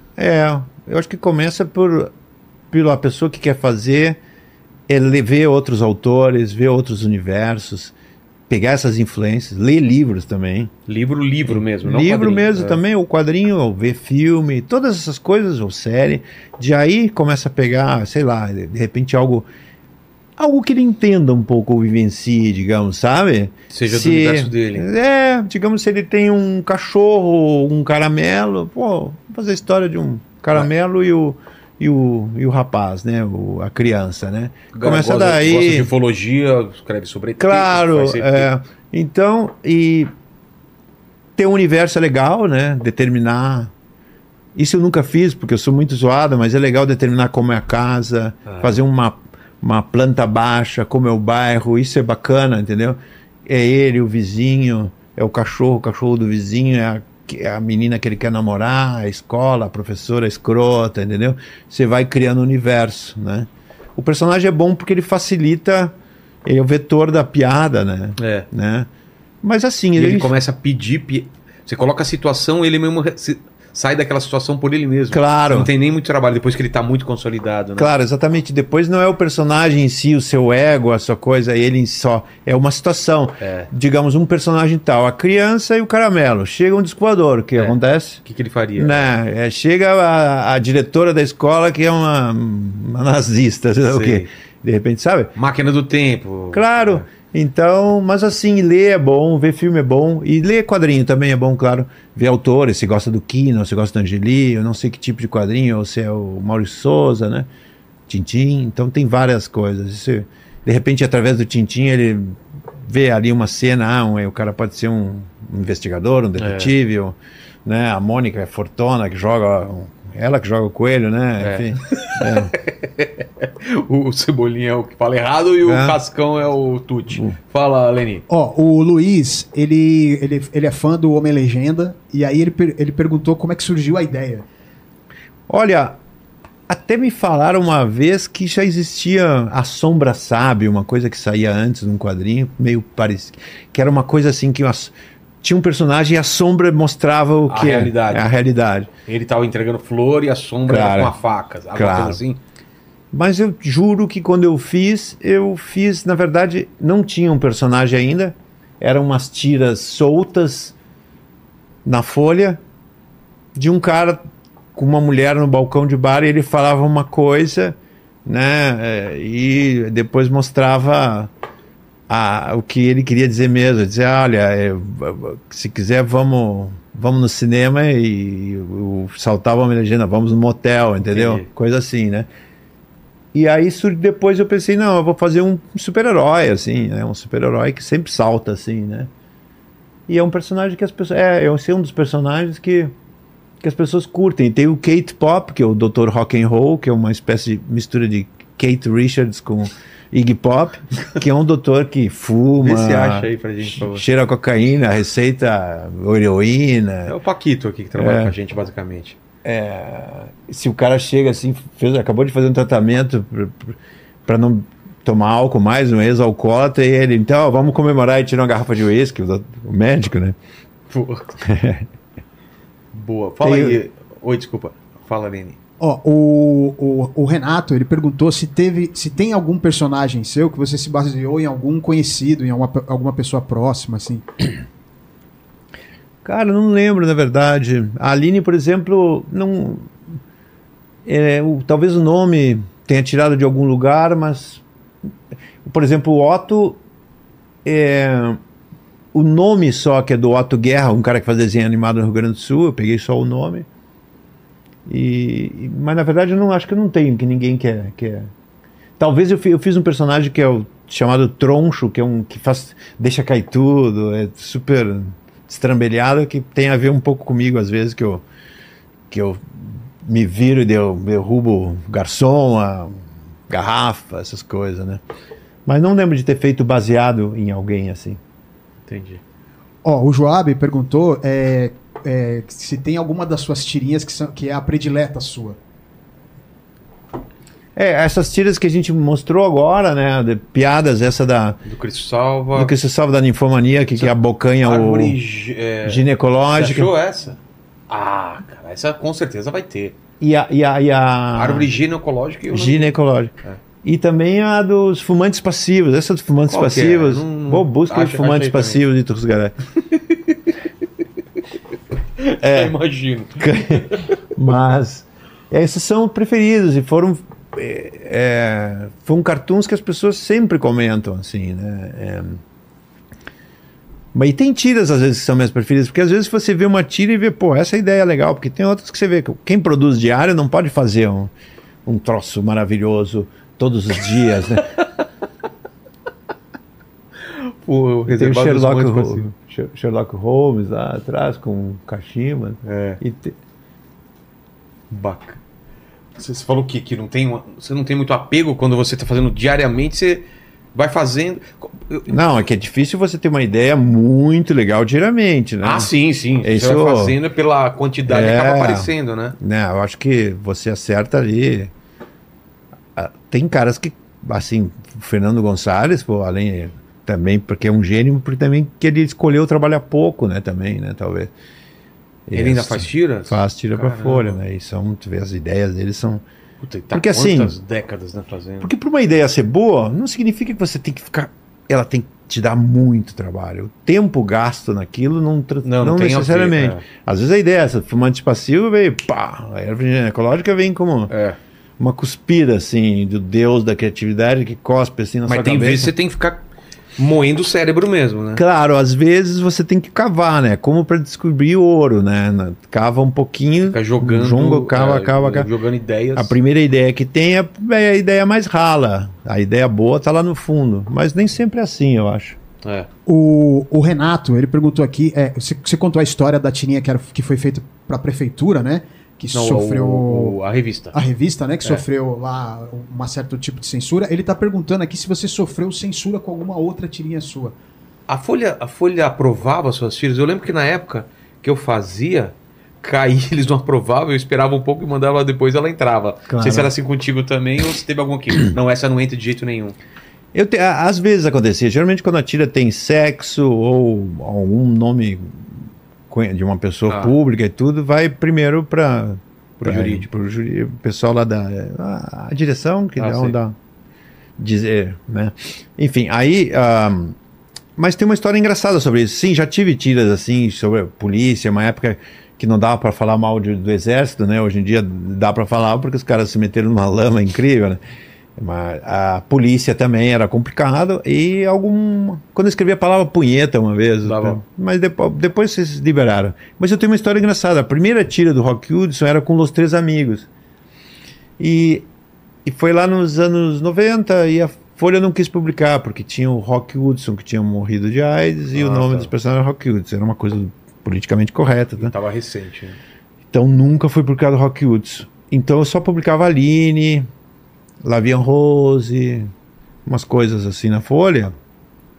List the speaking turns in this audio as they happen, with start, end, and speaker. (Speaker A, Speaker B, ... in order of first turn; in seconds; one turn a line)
Speaker A: 0.2-2.1
Speaker A: 2.7-4.2
Speaker A: 4.9-7.9
Speaker A: 8.5-10.7
Speaker B: 10.9-12.8
Speaker A: 11.5-19.5
Speaker A: 20.4-35.9
Speaker B: 23.7-24.9
Speaker B: 34.7-38.5
Speaker A: 37.4-40.1
Speaker A: 41.4-43.7
Speaker A: 44.5-65.9
Speaker B: 48.5-48.8
Speaker A: 66.4-68.9
Speaker B: 68.2-68.5
Speaker A: 69.4-70.4
Speaker B: 70.0-77.9
Speaker A: 75.1-75.7
Speaker A: 77.8-88.2
Speaker B: 83.4-83.7
Speaker B: 87.5-89.1
Speaker A: 88.8-95.3
Speaker B: 93.8-94.3
Speaker B: 95.3-97.0
Speaker A: 96.5-107.5
Speaker A: 108.1-122.5
Speaker B: 116.4-116.7
Speaker B: 121.4-128.2
Speaker A: 125.6-126.0
Speaker C: 128.3-134.4
Speaker A: 135.5-136.0
Speaker A: 136.7-148.9
Speaker B: 147.5-148.3
Speaker B: 149.0-152.4
Speaker A: 150.7-151.1
Speaker A: 151.7-152.2
Speaker A: 153.1-160.7
Speaker A: 161.8-162.6
Speaker A: 163.5-164.2
Speaker A: 164.7-171.3
Speaker A: 172.1-182.3
Speaker B: 181.1-181.4
Speaker A: 183.3-189.1
Speaker A: 190.1-192.9
Speaker A: 193.6-207.2
Speaker B: 202.6-204.0
Speaker B: 207.1-209.2
Speaker A: 207.9-208.3
Speaker A: 209.4-220.3
Speaker B: 220.9-221.3
Speaker A: 221.4-221.8
Speaker B: 222.9-225.6
Speaker A: 223.4-223.8
Speaker C: 225.8-234.2
Speaker A: 236.2-239.9
Speaker A: 241.0-244.6
Speaker A: 245.6-246.8
Speaker A: 247.6-248.4
Speaker A: 249.1-253.7
Speaker A: 254.8-258.3
Speaker A: 259.0-268.2
Speaker A: 269.1-273.0
Speaker A: 273.5-275.0
Speaker A: 275.6-278.2
Speaker B: 278.9-279.2
Speaker C: 279.8-285.6
Speaker A: 287.8-291.6
Speaker B: 291.6-292.7
Speaker A: 292.5-295.2
Speaker B: 293.9-300.0
Speaker A: 295.8-296.9
Speaker A: 300.2-301.7
Speaker B: 301.3-303.6
Speaker A: 302.5-309.5
Speaker B: 306.5-308.8
Speaker B: 309.9-310.3
Speaker B: 312.2-314.1
Speaker A: 312.4-312.7
Speaker A: 313.4-322.4
Speaker A: 324.1-331.3
Speaker A: 331.8-334.7
Speaker B: 337.2-339.2
Speaker A: 338.1-343.3
Speaker B: 342.6-343.0
Speaker B: 344.9-345.4
Speaker B: 346.1-352.1
Speaker A: 352.1-355.9
Speaker B: 355.6-359.3
Speaker A: 356.4-357.2
Speaker A: 358.1-361.7
Speaker A: 362.9-371.3
Speaker A: 372.3-376.2
Speaker B: 372.3-374.4
Speaker B: 376.6-378.7
Speaker A: 376.9-377.6
Speaker A: 378.6-391.1
Speaker B: 385.6-386.8
Speaker B: 391.1-391.4
Speaker A: 391.8-395.9
Speaker B: 395.3-396.4
Speaker B: 397.0-398.4
Speaker A: 398.3-405.5
Speaker B: 403.6-406.4
Speaker A: 406.1-412.4
Speaker B: 412.6-412.9
Speaker C: 413.1-420.4
Speaker B: 419.3-420.9
Speaker C: 420.9-427.5
Speaker B: 428.1-439.8
Speaker A: 436.3-436.7
Speaker A: 440.3-453.6
Speaker B: 446.9-447.1
Speaker B: 449.6-450.1
Speaker B: 453.0-453.4
Speaker A: 454.4-457.1
Speaker A: 457.8-467.8
Speaker A: 468.4-480.3
Speaker B: 474.0-474.4
Speaker A: 481.4-481.9
Speaker A: 482.4-491.9
Speaker B: 488.5-489.1
Speaker B: 491.8-492.8
Speaker A: 493.3-497.1
Speaker A: 497.8-499.3
Speaker A: 499.9-501.3